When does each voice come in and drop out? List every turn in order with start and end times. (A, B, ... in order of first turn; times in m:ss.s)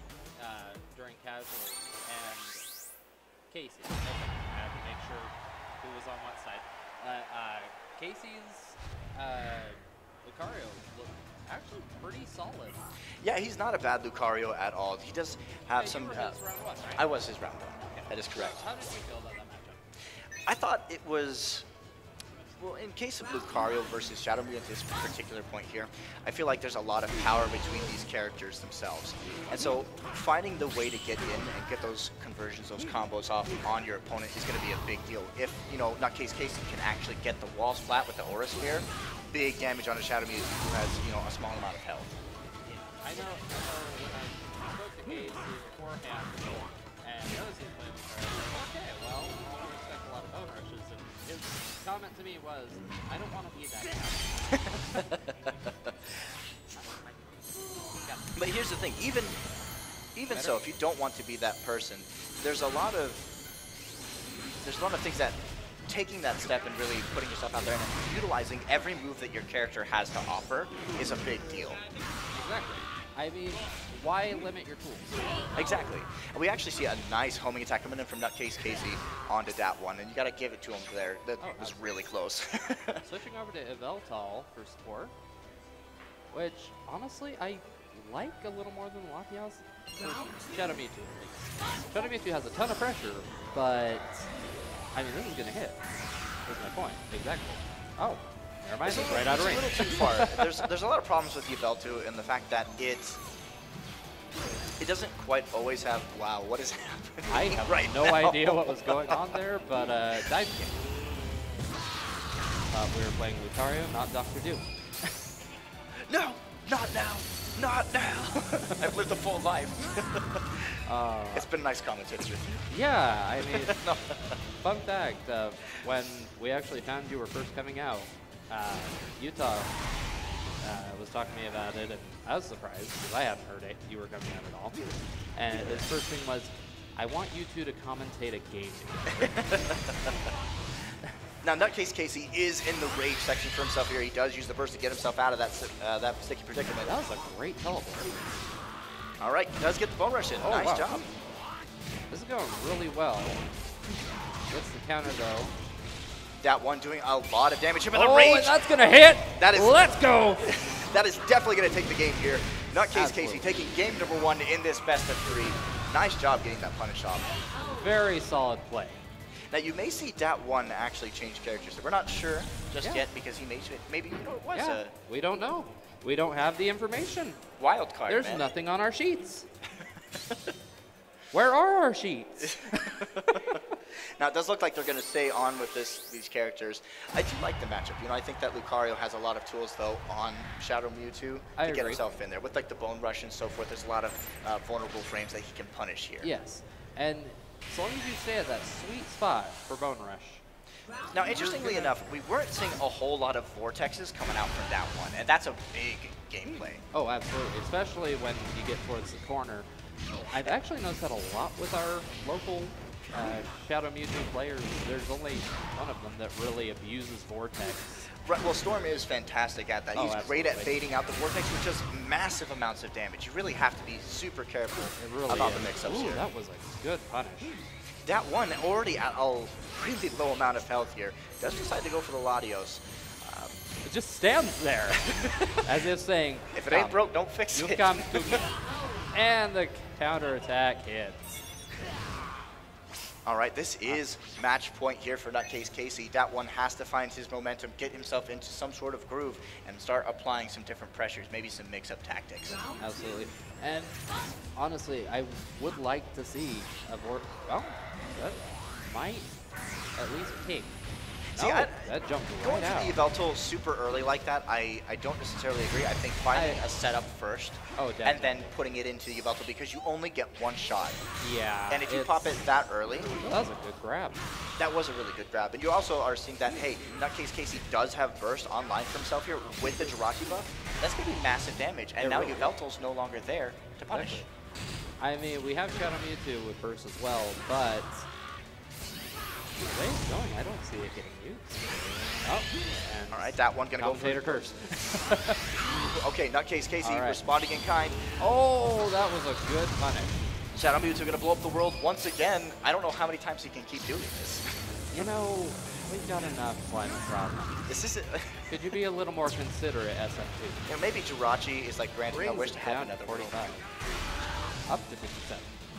0:00.4-0:02.6 A
0:03.5-0:12.9 A
0:13.2-0:16.4 B
0:15.7-0:17.1 A
0:16.9-0:18.6 B
0:17.8-0:19.8 A
0:20.5-0:21.7 B
0:22.6-0:42.1 B
0:42.6-0:54.3 A
0:54.5-0:55.1 B
0:56.7-0:58.2 A
0:58.3-0:59.4 B
1:00.1-1:03.2 B
1:00.3-1:00.7 A
1:04.6-1:11.8 B
1:12.3-1:15.2 A
1:15.5-1:23.0 B
1:21.4-1:22.0 A
1:23.0-1:25.1 A
1:26.3-1:34.3 A
1:34.9-1:35.8 A
1:36.4-1:40.5 A
1:38.8-1:43.2 B
1:44.8-1:49.4 B
1:47.3-1:50.8 A
1:52.7-1:54.7 A
1:56.1-2:00.6 B
2:00.8-2:01.5 A
2:01.3-2:02.6 B
2:02.7-2:03.8 A
2:03.4-2:04.4 B
2:04.6-2:09.7 A
2:10.6-2:19.4 A
2:15.5-2:15.9 B
2:19.2-2:20.1 B
2:21.4-2:26.9 B
2:26.8-2:28.2 A
2:29.2-2:31.0 B
2:30.4-2:31.0 A
2:32.1-2:33.4 A
2:34.5-2:35.5 A
2:36.4-2:38.6 B
2:37.9-2:40.5 A
2:39.4-2:47.2 B
2:42.9-2:43.5 A
2:47.6-2:49.0 A
2:49.5-2:54.9 B
2:54.5-2:57.4 A
2:57.6-2:58.4 B
2:58.1-2:59.5 A
3:01.3-3:02.7 A
3:02.4-3:03.6 B
3:04.2-3:16.3 B
3:11.6-3:12.0 A
3:16.2-3:20.4 A
3:21.1-3:26.8 B
3:21.2-3:22.0 A
3:26.4-3:29.7 A
3:30.3-3:38.1 A
3:38.2-3:46.3 B
3:39.9-3:40.8 A
3:45.0-3:47.6 A
3:48.0-3:53.6 B
3:53.8-3:58.5 A
3:55.0-3:55.5 B
3:56.5-3:58.4 B
3:59.1-4:01.4 A
4:03.2-4:12.6 B
4:12.7-4:14.0 A
4:14.5-4:19.3 A
4:19.9-4:20.8 A
4:21.3-4:23.0 A
4:21.3-4:31.0 B
4:26.3-4:26.6 A
4:27.8-4:28.5 A
4:31.2-4:32.4 A
4:31.7-4:33.2 B
4:33.2-4:34.2 A
4:34.6-4:44.2 B
4:42.0-4:42.5 A
4:43.9-4:44.3 A
4:45.0-4:48.1 A
4:49.6-4:55.4 A
4:53.1-4:54.5 B
4:55.6-4:58.1 B
4:56.8-4:57.2 A
4:58.2-5:00.2 A
5:00.5-5:04.4 B
5:04.9-5:07.7 A
5:07.7-5:08.5 B
5:08.5-5:10.7 A
5:10.7-5:13.5 B
5:12.1-5:13.6 A
5:14.7-5:15.5 A